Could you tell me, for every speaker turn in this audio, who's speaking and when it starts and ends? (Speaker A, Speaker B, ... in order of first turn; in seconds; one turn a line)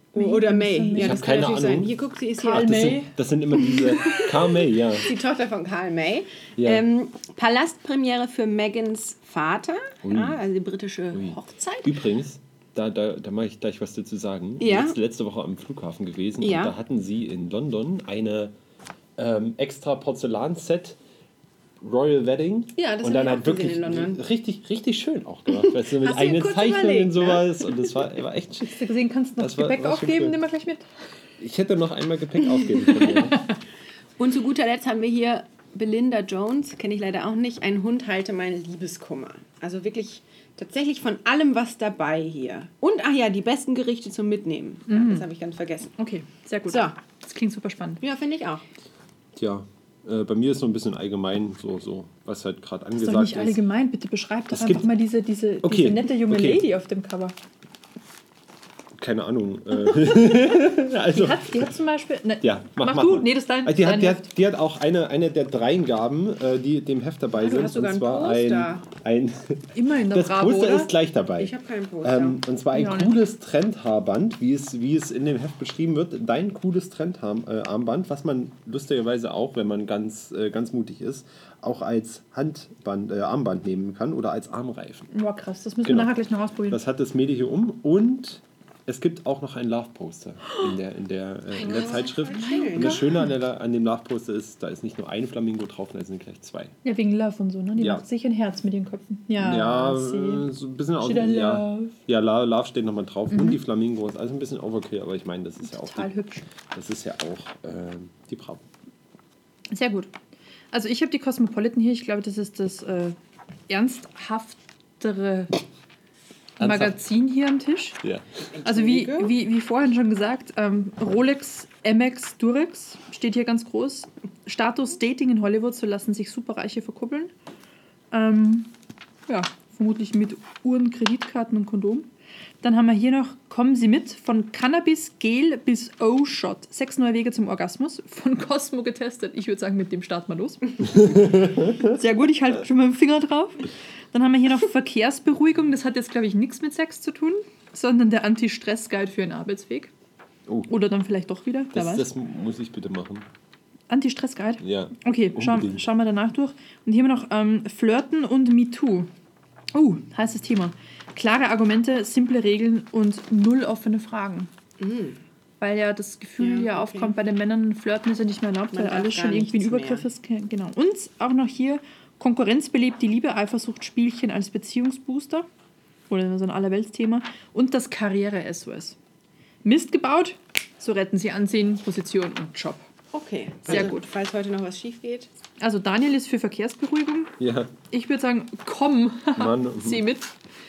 Speaker A: 0.1-3.0
Speaker B: 0.1-1.2
Speaker C: 1.0-1.9
Speaker B: 2.4-3.1
Speaker C: 2.5-5.1
Speaker A: 3.6-11.9
Speaker C: 6.6-6.8
Speaker C: 10.0-10.4
Speaker C: 11.1-18.5
Speaker A: 14.6-14.9
Speaker A: 16.4-16.7
Speaker C: 19.2-21.0
Speaker C: 21.8-28.8
Speaker A: 22.8-24.2
Speaker A: 25.5-28.0
Speaker B: 28.6-30.8
Speaker C: 29.4-30.4
Speaker C: 31.4-33.4
Speaker B: 32.9-33.5
Speaker A: 34.2-45.9
Speaker B: 44.9-45.2
Speaker B: 46.0-48.0
Speaker A: 46.6-47.0
Speaker A: 48.0-48.6
Speaker C: 49.4-53.6
Speaker B: 53.0-57.3
Speaker C: 54.5-54.9
Speaker C: 55.6-56.6
Speaker C: 59.0-61.7
Speaker B: 61.1-64.3
Speaker C: 62.4-71.5
Speaker A: 67.3-68.8
Speaker B: 69.7-70.9
Speaker A: 71.4-72.4
Speaker C: 72.0-85.1
Speaker B: 72.7-73.1
Speaker B: 85.1-86.8
Speaker C: 85.8-86.1
Speaker C: 86.7-96.8
Speaker B: 91.6-93.3
Speaker A: 91.6-93.0
Speaker B: 96.8-100.5
Speaker C: 97.8-98.0
Speaker C: 99.3-106.1
Speaker B: 101.0-102.0
Speaker B: 103.3-103.6
Speaker B: 105.6-106.5
Speaker C: 106.7-108.6
Speaker B: 109.7-110.1
Speaker B: 110.7-113.2
Speaker B: 113.7-115.5
Speaker C: 116.6-117.0
Speaker B: 116.6-118.0
Speaker A: 118.5-119.3
Speaker B: 118.6-127.3
Speaker B: 128.1-128.7
Speaker B: 129.3-132.1
Speaker B: 132.6-141.2
Speaker C: 140.9-141.9
Speaker B: 141.8-149.9
Speaker C: 150.5-150.7
Speaker B: 150.7-152.1
Speaker C: 151.7-153.3
Speaker B: 153.9-159.1
Speaker C: 154.6-155.8
Speaker B: 159.7-164.5
Speaker A: 164.8-165.2
Speaker B: 165.6-175.4
Speaker A: 166.4-167.1
Speaker A: 168.7-170.1
Speaker B: 176.1-179.0
Speaker B: 179.6-182.8
Speaker A: 183.1-185.3
Speaker B: 183.6-184.1
Speaker B: 185.6-187.3
Speaker C: 187.4-187.7
Speaker B: 187.9-190.3
Speaker C: 189.3-190.0